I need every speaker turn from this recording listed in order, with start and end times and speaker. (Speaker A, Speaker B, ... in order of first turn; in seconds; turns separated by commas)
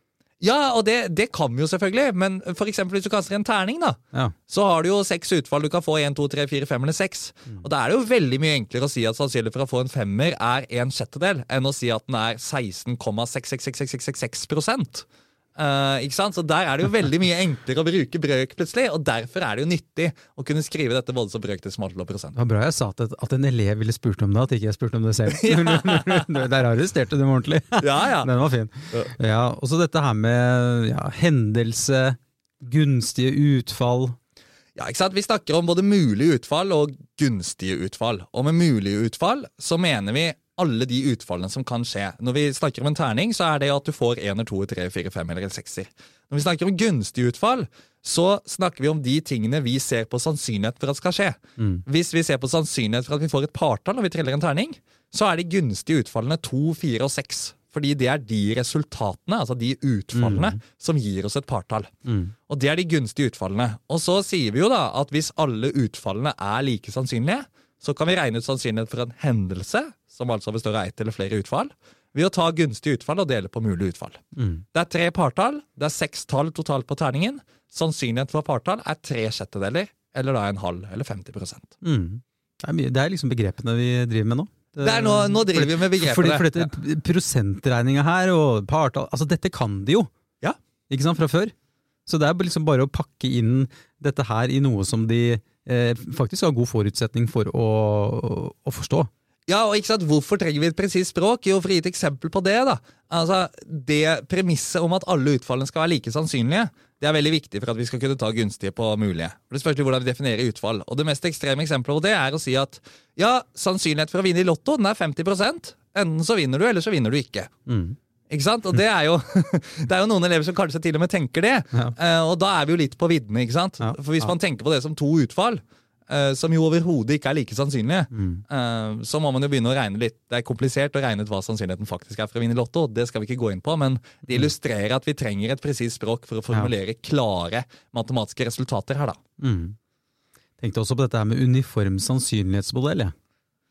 Speaker A: 0.4-22.4, Speaker B: 22.3-34.1, Speaker A: 25.3-26.4, Speaker A: 27.8-28.3, Speaker A: 34.8-61.9, Speaker B: 51.6-51.8, Speaker B: 60.1-60.6, Speaker B: 62.0-62.3, Speaker A: 62.5-74.2, Speaker B: 74.3-74.6, Speaker A: 74.7-81.7, Speaker B: 81.8-90.1, Speaker A: 84.8-86.7, Speaker B: 90.9-91.5, Speaker B: 92.0-99.1, Speaker A: 99.5-117.5, Speaker B: 117.7-118.0, Speaker A: 118.3-139.2, Speaker B: 123.8-124.3, Speaker B: 128.1-128.4, Speaker B: 139.4-139.8, Speaker B: 140.6-143.1